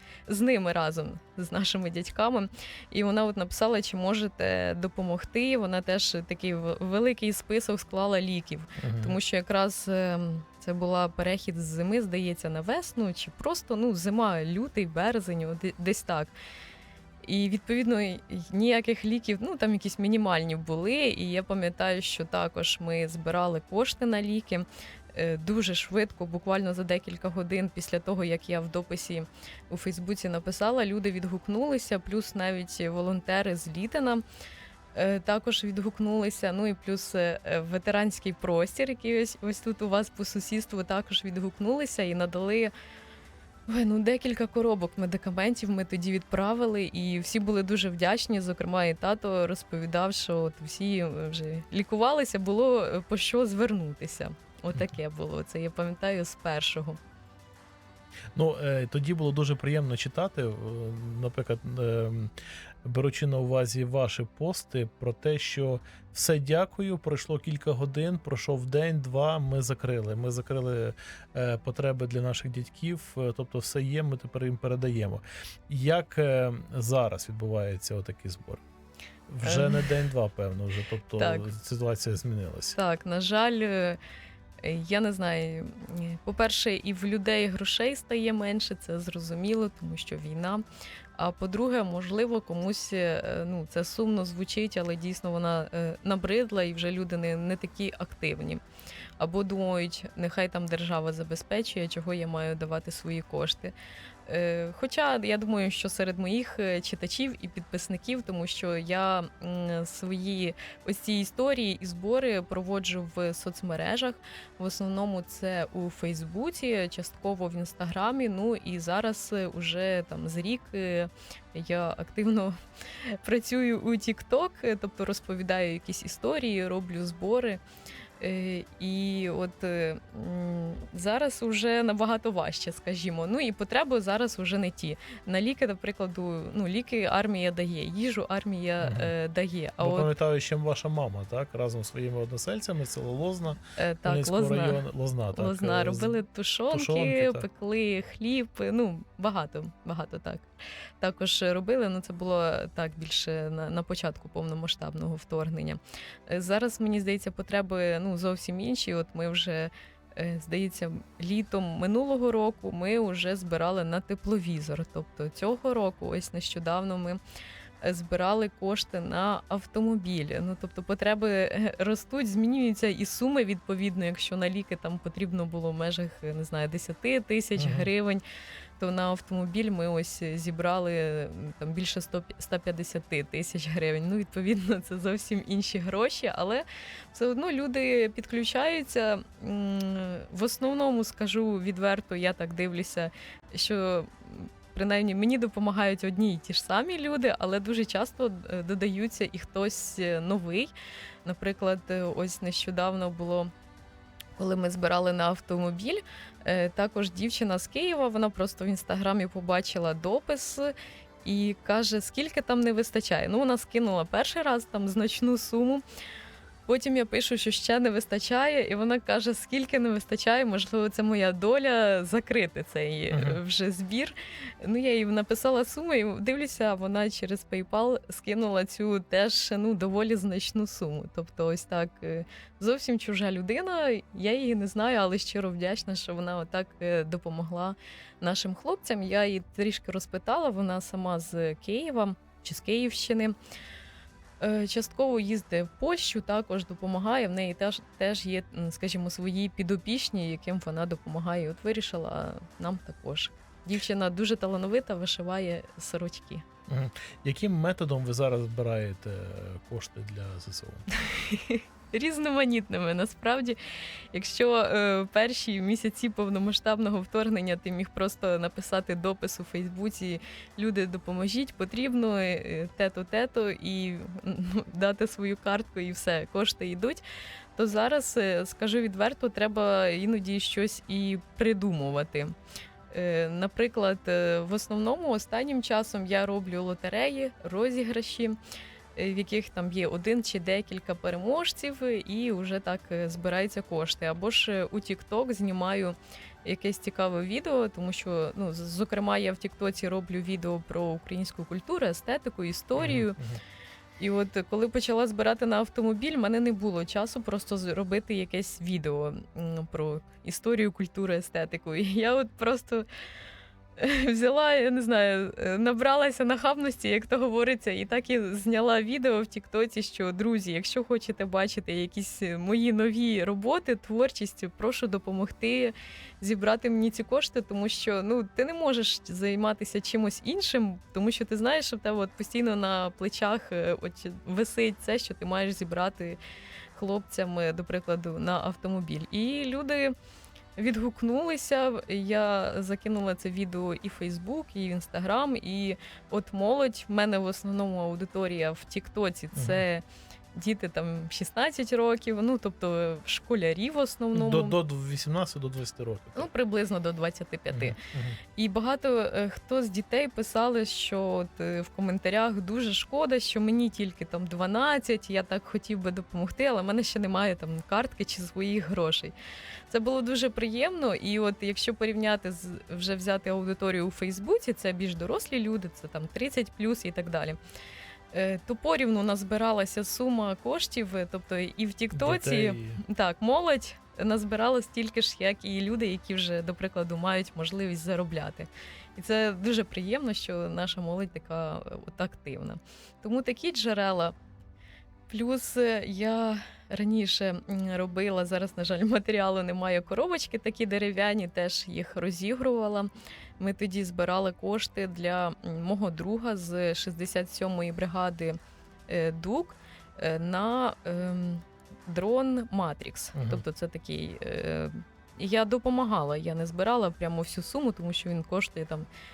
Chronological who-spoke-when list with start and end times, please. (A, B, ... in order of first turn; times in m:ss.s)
0:00.3-0:16.3 A
0:08.8-0:09.2 B
0:17.2-0:34.2 A
0:34.9-0:42.7 A
0:43.7-0:57.0 A
0:58.3-1:02.3 B
1:02.8-1:18.6 B
1:19.3-1:22.8 B
1:19.4-1:19.9 A
1:21.2-1:21.5 A
1:22.7-1:24.0 A
1:24.6-1:30.6 A
1:31.2-1:38.6 A
1:39.2-1:43.7 A
1:44.2-2:02.5 A
2:03.1-2:07.6 A
2:08.2-2:20.1 A
2:18.8-2:19.1 B
2:19.8-2:27.5 B
2:23.8-2:47.2 A
2:47.8-2:58.2 A
2:57.6-2:57.9 B
2:58.8-3:20.7 A
3:21.2-3:23.5 A
3:24.4-3:35.8 A
3:36.6-4:03.3 A
3:43.1-3:43.4 B
4:04.4-4:16.4 A
4:16.7-4:20.9 B
4:20.9-4:23.6 A
4:24.1-4:37.0 A
4:37.5-4:42.3 A
4:42.9-4:48.4 A
4:48.9-5:03.2 A
5:02.8-5:03.4 B
5:04.0-5:12.8 A
5:13.8-5:36.2 A
5:36.7-5:39.9 A
5:40.6-5:54.6 A
5:49.3-5:49.6 B
5:54.1-5:56.3 B
5:56.1-5:57.8 A
5:57.5-5:58.2 B
5:58.4-6:09.1 A
6:09.7-6:17.4 A
6:18.1-6:34.1 A
6:21.9-6:22.8 B
6:35.1-6:48.4 A
6:48.9-6:58.9 A
6:53.1-6:53.4 B